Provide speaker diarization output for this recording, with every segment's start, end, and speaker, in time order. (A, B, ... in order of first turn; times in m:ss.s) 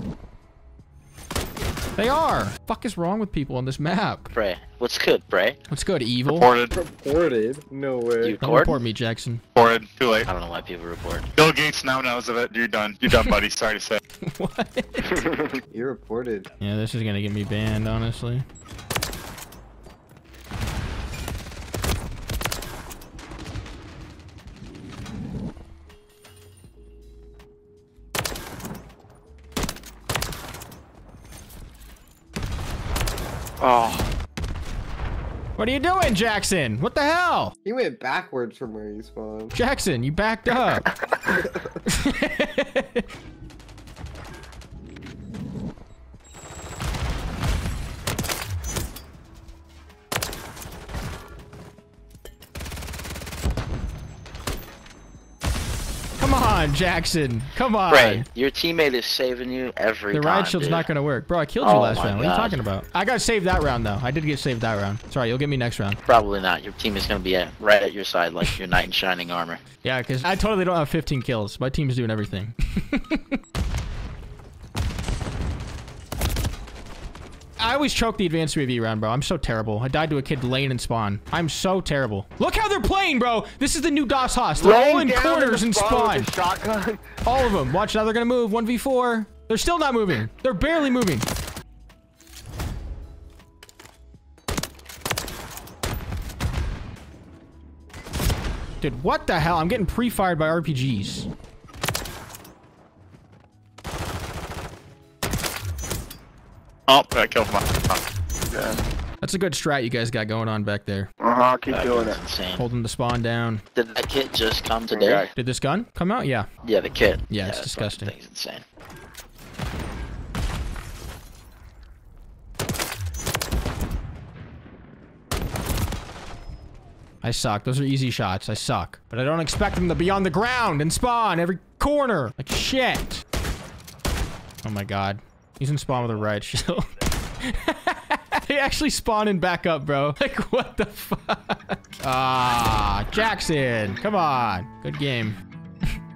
0:02.0-0:04.3 A
0:04.3-0:05.6 B
0:05.7-0:06.5 A
0:06.3-0:06.7 C
0:06.7-0:08.4 D
0:08.2-0:08.8 B
0:08.4-0:09.4 A
0:09.6-0:10.3 C
0:10.3-0:11.3 B
0:11.4-0:14.0 C
0:13.1-0:13.4 A
0:14.2-0:15.2 A
0:15.7-0:16.5 D
0:16.6-0:18.4 A
0:33.6-0:34.1 E
0:35.6-0:37.5 A
0:37.6-0:39.6 D
0:39.5-0:40.9 A
0:41.9-0:43.0 A
0:56.2-0:58.3 A
0:57.9-1:00.9 B
1:00.1-1:06.0 A
1:01.6-1:02.6 B
1:06.1-1:09.6 B
1:09.8-1:13.4 A
1:17.6-1:26.3 A
1:24.6-1:27.1 E
1:27.2-1:31.3 A
1:38.8-1:41.3 A
1:46.9-1:48.0 C
1:48.5-1:48.8 E
1:49.2-1:51.1 A
1:51.2-1:52.2 E
1:51.7-1:52.7 B
1:52.6-1:53.6 A
1:53.8-1:55.3 B
1:54.9-1:55.3 E
1:55.3-1:56.5 A
1:56.6-1:58.6 B
1:57.3-1:58.2 A
2:07.2-2:13.2 A
2:14.6-2:16.9 A
2:17.4-2:25.4 A